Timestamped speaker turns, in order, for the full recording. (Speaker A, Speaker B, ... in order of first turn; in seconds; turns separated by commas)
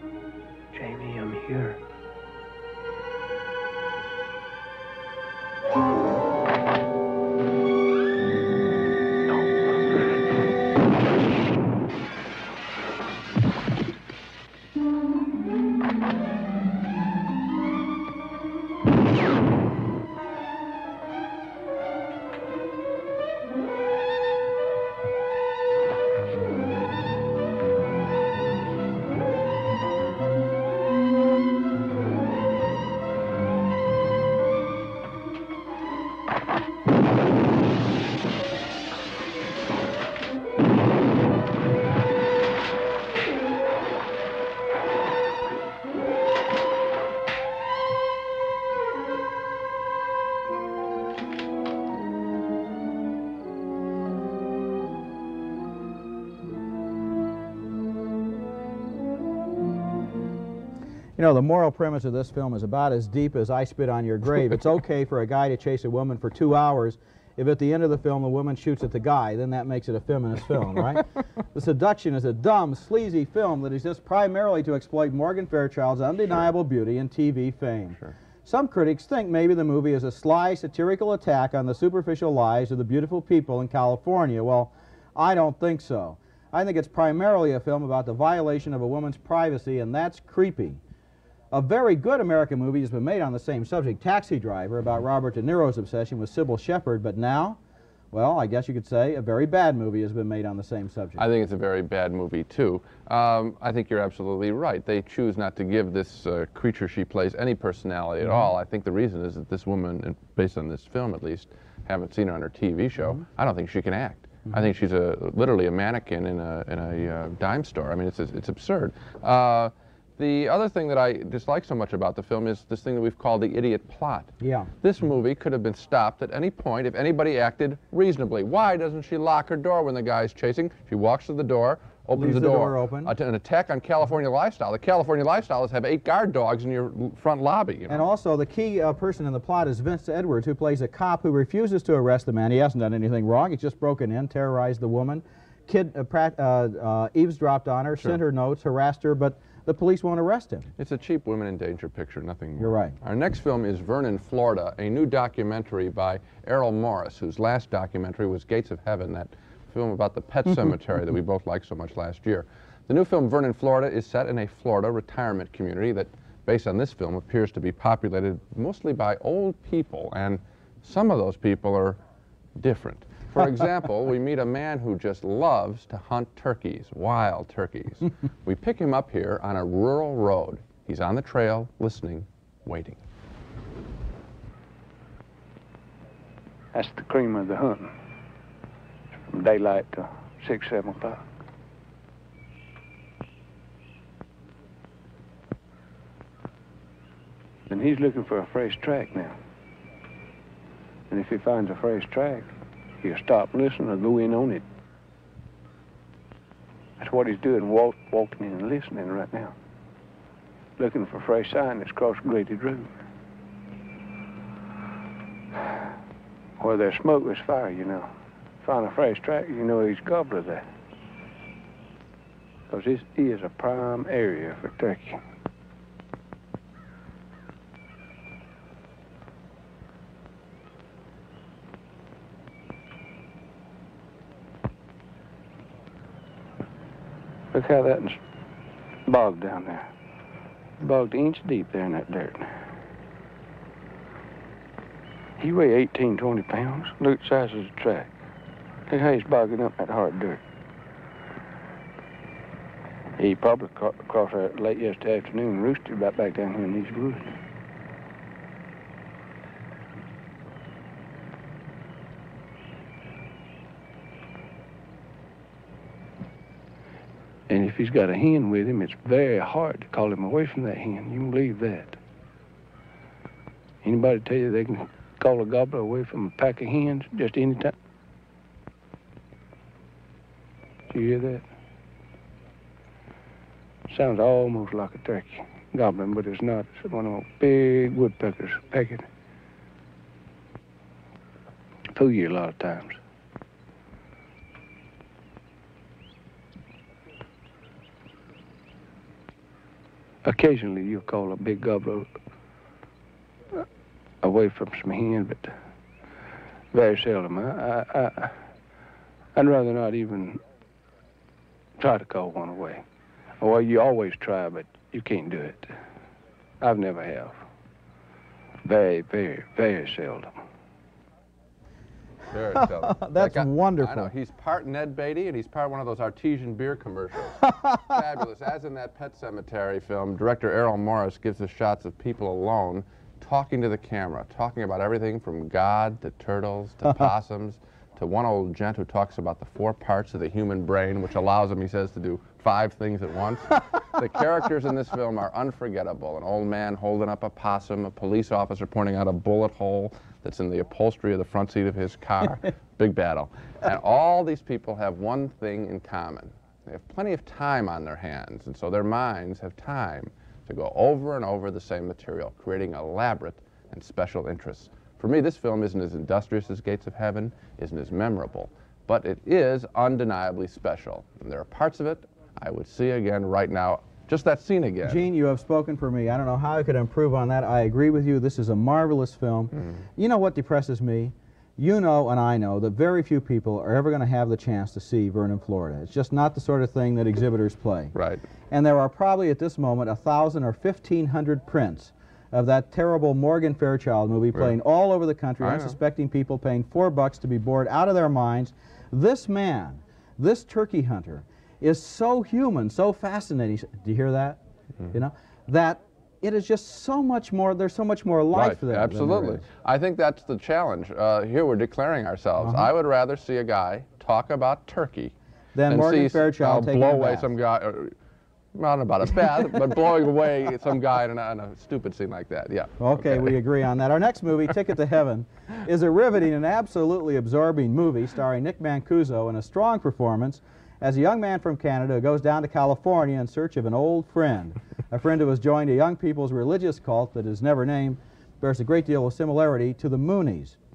Speaker A: 0.7-1.8, Speaker A: 9.3-9.6, Speaker B: 61.2-90.8, Speaker B: 91.5-97.6, Speaker B: 98.1-101.2, Speaker C: 101.2-138.1, Speaker B: 124.4-124.7, Speaker B: 132.1-133.1, Speaker B: 137.9-150.7, Speaker C: 150.8-172.0, Speaker B: 152.6-152.9, Speaker C: 172.6-183.0, Speaker A: 186.7-187.9, Speaker A: 189.3-191.2, Speaker A: 197.7-199.3, Speaker A: 201.1-202.5, Speaker A: 203.0-204.6, Speaker A: 207.0-209.5, Speaker A: 210.8-212.9, Speaker A: 216.6-218.1, Speaker A: 218.6-220.7, Speaker A: 222.7-225.2, Speaker A: 237.5-238.2, Speaker A: 239.1-239.9, Speaker A: 240.8-242.6, Speaker A: 245.4-248.1, Speaker A: 248.9-250.4, Speaker A: 253.2-257.4, Speaker A: 267.5-272.0, Speaker A: 273.8-277.7, Speaker A: 280.9-281.4, Speaker A: 283.9-289.1, Speaker A: 291.9-293.0, Speaker A: 300.2-302.1, Speaker A: 304.2-305.6, Speaker A: 306.7-308.4, Speaker A: 309.3-310.4, Speaker A: 311.8-312.8, Speaker A: 313.4-315.7, Speaker A: 316.6-317.4, Speaker A: 318.6-320.3, Speaker C: 322.3-375.1, Speaker B: 322.6-324.1, Speaker B: 374.8-387.9, Speaker C: 387.9-388.2, Speaker B: 388.5-404.4, Speaker C: 395.4-395.8, Speaker B: 404.9-409.4, Speaker C: 408.3-415.1, Speaker B: 412.4-412.7, Speaker B: 415.6-417.3, Speaker C: 415.7-417.9, Speaker C: 418.6-423.4, Speaker B: 422.8-440.6